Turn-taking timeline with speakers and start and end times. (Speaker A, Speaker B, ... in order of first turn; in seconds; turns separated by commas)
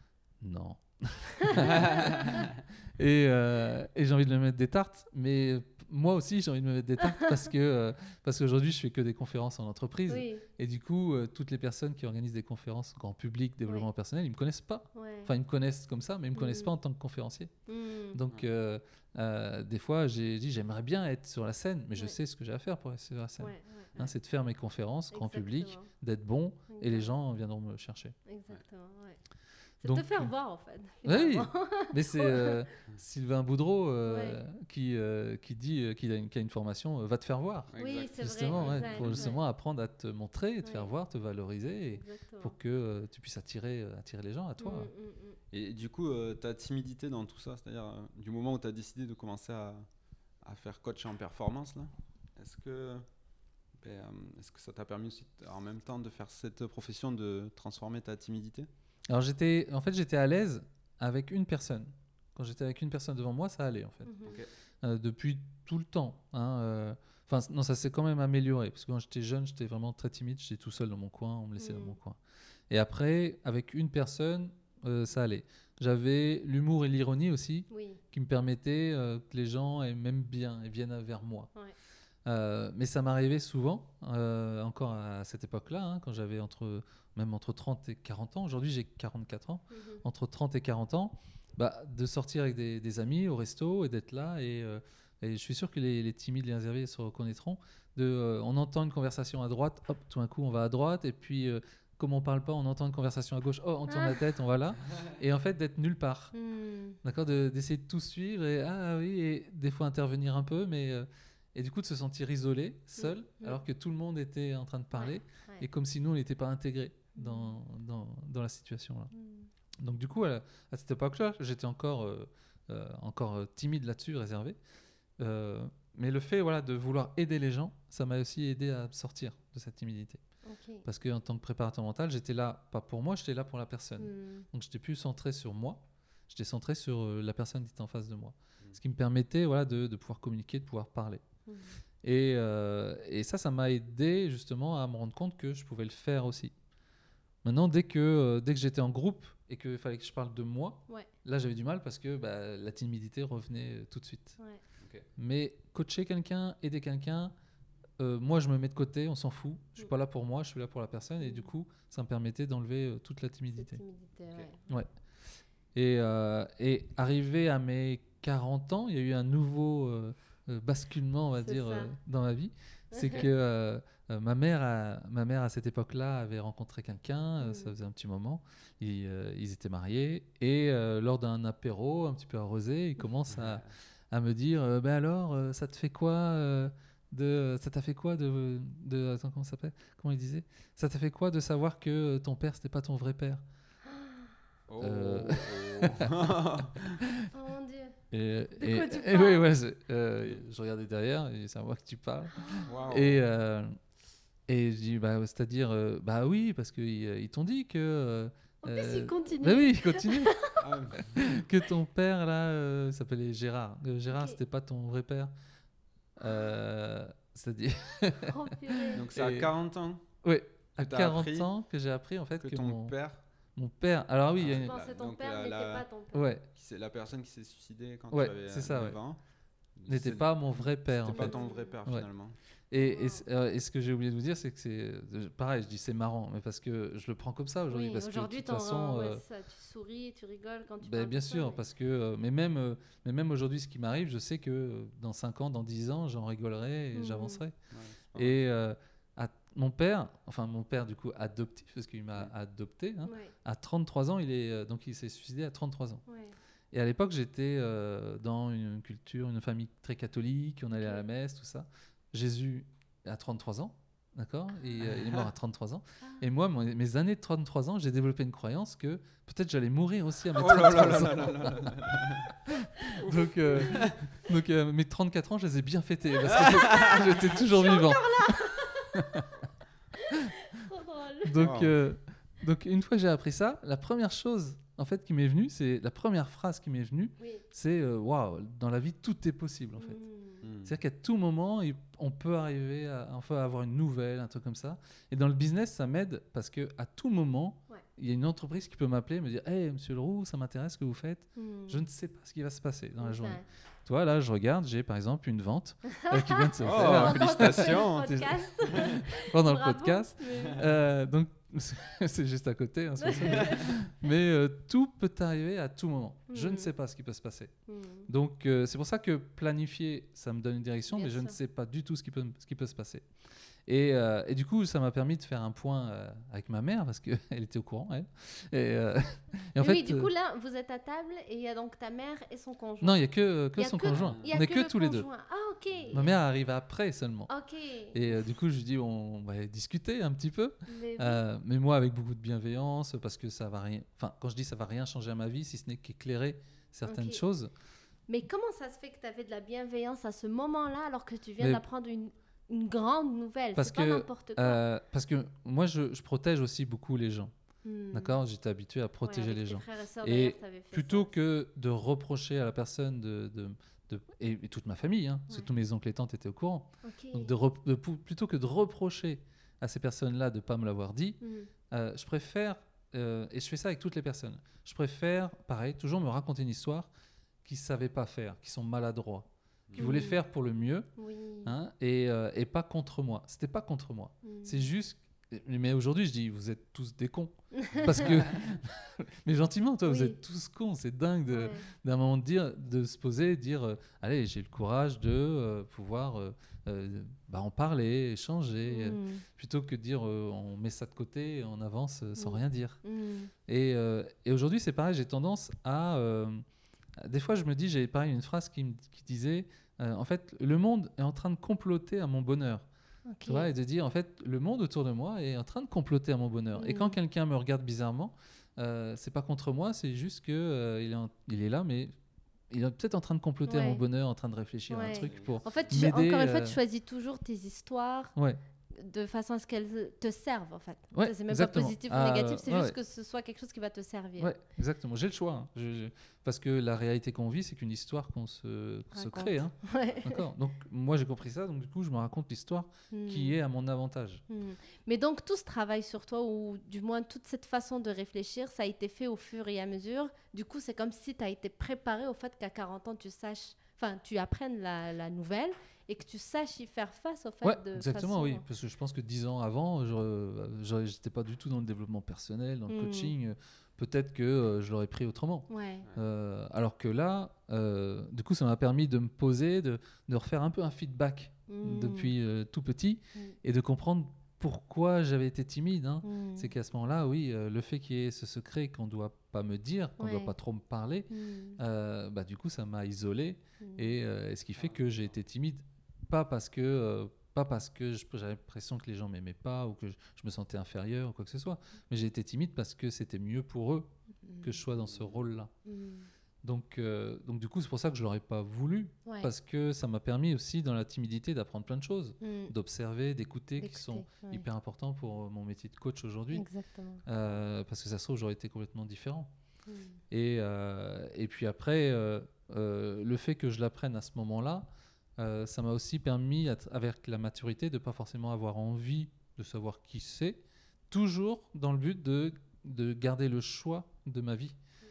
Speaker A: 0.4-17.5, Speaker B: 1.4-2.0, Speaker C: 1.7-2.0, Speaker B: 7.0-7.4, Speaker B: 10.1-10.4, Speaker B: 14.9-15.3, Speaker B: 16.4-16.7, Speaker B: 17.7-18.2, Speaker A: 18.1-28.1, Speaker B: 23.4-23.9, Speaker B: 25.1-25.9, Speaker B: 26.7-27.1, Speaker B: 28.3-29.2, Speaker B: 29.8-32.7, Speaker A: 29.8-30.3, Speaker A: 31.0-44.9, Speaker B: 34.1-34.4, Speaker C: 37.7-39.4, Speaker B: 37.8-39.4, Speaker B: 40.6-40.9, Speaker B: 41.9-42.5, Speaker B: 44.6-45.4, Speaker C: 45.5-49.9, Speaker C: 50.4-53.1, Speaker C: 53.8-58.7, Speaker A: 59.1-72.2, Speaker B: 64.1-64.4, Speaker C: 64.2-64.5, Speaker B: 71.6-72.0, Speaker A: 72.7-81.5, Speaker B: 77.7-78.0, Speaker A: 82.3-106.3, Speaker B: 89.7-90.0, Speaker B: 103.9-104.2, Speaker B: 106.3-107.0, Speaker A: 107.0-119.1, Speaker B: 113.0-113.6, Speaker B: 114.9-115.7, Speaker B: 117.2-117.5, Speaker B: 119.1-119.5, Speaker A: 119.8-124.6, Speaker A: 125.2-130.2, Speaker B: 130.4-130.9, Speaker A: 130.8-141.2, Speaker B: 134.0-134.5, Speaker B: 141.5-141.8, Speaker A: 142.0-146.5, Speaker A: 147.4-154.4, Speaker C: 154.8-155.1, Speaker A: 155.2-157.3, Speaker A: 158.0-163.8, Speaker B: 161.2-161.5, Speaker B: 163.6-164.7, Speaker A: 165.8-193.4, Speaker B: 171.4-171.9, Speaker B: 172.9-173.3, Speaker B: 177.4-177.8, Speaker C: 183.3-183.7, Speaker B: 193.8-194.3, Speaker C: 194.7-197.0, Speaker A: 194.8-196.1, Speaker A: 197.0-197.3, Speaker B: 197.3-198.0, Speaker A: 198.1-203.8, Speaker B: 198.6-199.5, Speaker B: 202.3-202.8, Speaker C: 202.7-203.2, Speaker A: 204.5-215.3, Speaker B: 208.6-210.7, Speaker C: 210.6-211.4, Speaker B: 214.1-214.4, Speaker A: 216.2-219.5, Speaker B: 216.2-216.5, Speaker B: 218.3-219.1, Speaker C: 218.9-220.1, Speaker A: 220.2-222.9, Speaker C: 220.8-221.5, Speaker C: 222.4-223.2, Speaker A: 223.6-224.8, Speaker C: 224.4-225.9, Speaker B: 224.5-226.3, Speaker A: 226.1-226.4, Speaker C: 226.5-229.2, Speaker A: 228.1-229.0, Speaker C: 229.8-232.4, Speaker A: 229.9-232.1, Speaker B: 231.1-231.7, Speaker A: 232.7-239.2, Speaker B: 232.7-233.2, Speaker B: 237.7-241.6, Speaker A: 240.8-247.6, Speaker B: 246.9-247.4, Speaker C: 247.7-248.5, Speaker A: 248.2-256.0, Speaker B: 253.1-253.3, Speaker B: 256.1-256.4, Speaker A: 256.7-279.3, Speaker B: 260.7-261.0, Speaker C: 264.8-265.3, Speaker B: 266.0-266.3, Speaker C: 270.4-272.4, Speaker C: 272.9-274.1, Speaker C: 276.3-277.4, Speaker B: 276.3-279.2, Speaker B: 280.0-281.5, Speaker A: 281.2-290.0, Speaker C: 281.4-281.8, Speaker B: 287.2-287.4, Speaker B: 289.8-290.4, Speaker C: 290.4-290.8, Speaker A: 290.6-317.6, Speaker B: 301.4-301.8, Speaker B: 303.0-303.4, Speaker B: 305.9-310.7, Speaker C: 306.6-309.0, Speaker B: 313.0-313.8, Speaker B: 316.3-316.7, Speaker B: 317.7-318.1, Speaker A: 318.1-323.1, Speaker B: 320.9-321.4, Speaker A: 323.7-330.1, Speaker B: 329.6-336.2, Speaker A: 332.8-335.1, Speaker C: 333.9-334.4, Speaker C: 335.7-336.0, Speaker A: 335.9-337.3, Speaker B: 337.3-338.1, Speaker A: 337.9-347.5, Speaker B: 340.7-341.2, Speaker B: 346.9-347.2, Speaker B: 348.1-354.6, Speaker A: 353.6-357.3, Speaker B: 357.6-358.2, Speaker A: 357.9-376.9, Speaker B: 359.0-361.1, Speaker B: 366.8-367.3, Speaker B: 371.2-371.5, Speaker A: 377.4-380.9, Speaker C: 379.7-379.9, Speaker B: 379.8-380.2, Speaker B: 381.0-381.6, Speaker A: 381.4-402.8, Speaker B: 384.2-384.6, Speaker B: 387.6-388.2, Speaker B: 389.9-390.2, Speaker B: 391.3-391.7, Speaker B: 398.6-399.2, Speaker B: 402.2-403.3, Speaker A: 403.5-406.4, Speaker A: 407.0-412.7, Speaker B: 413.1-413.5, Speaker A: 413.3-421.9, Speaker B: 416.6-417.0, Speaker A: 422.5-426.6, Speaker B: 423.5-423.8, Speaker B: 424.7-428.1, Speaker C: 424.9-425.7, Speaker B: 428.7-434.3, Speaker A: 430.9-432.8, Speaker A: 434.2-444.2, Speaker B: 438.9-440.3, Speaker B: 442.9-443.4, Speaker B: 444.3-458.4, Speaker A: 457.4-493.9, Speaker B: 462.7-463.1, Speaker B: 465.5-465.9, Speaker B: 471.5-472.1, Speaker B: 476.0-476.5, Speaker B: 480.0-480.3, Speaker B: 481.1-481.6, Speaker B: 483.6-483.9, Speaker C: 484.6-485.0, Speaker B: 494.2-494.6, Speaker A: 494.4-495.5, Speaker C: 494.8-495.2, Speaker B: 495.6-496.1, Speaker A: 496.4-506.5, Speaker B: 499.1-499.3, Speaker B: 502.2-502.5, Speaker B: 503.6-504.5, Speaker B: 506.3-507.0, Speaker A: 507.1-509.3, Speaker B: 509.7-510.0, Speaker A: 510.1-524.6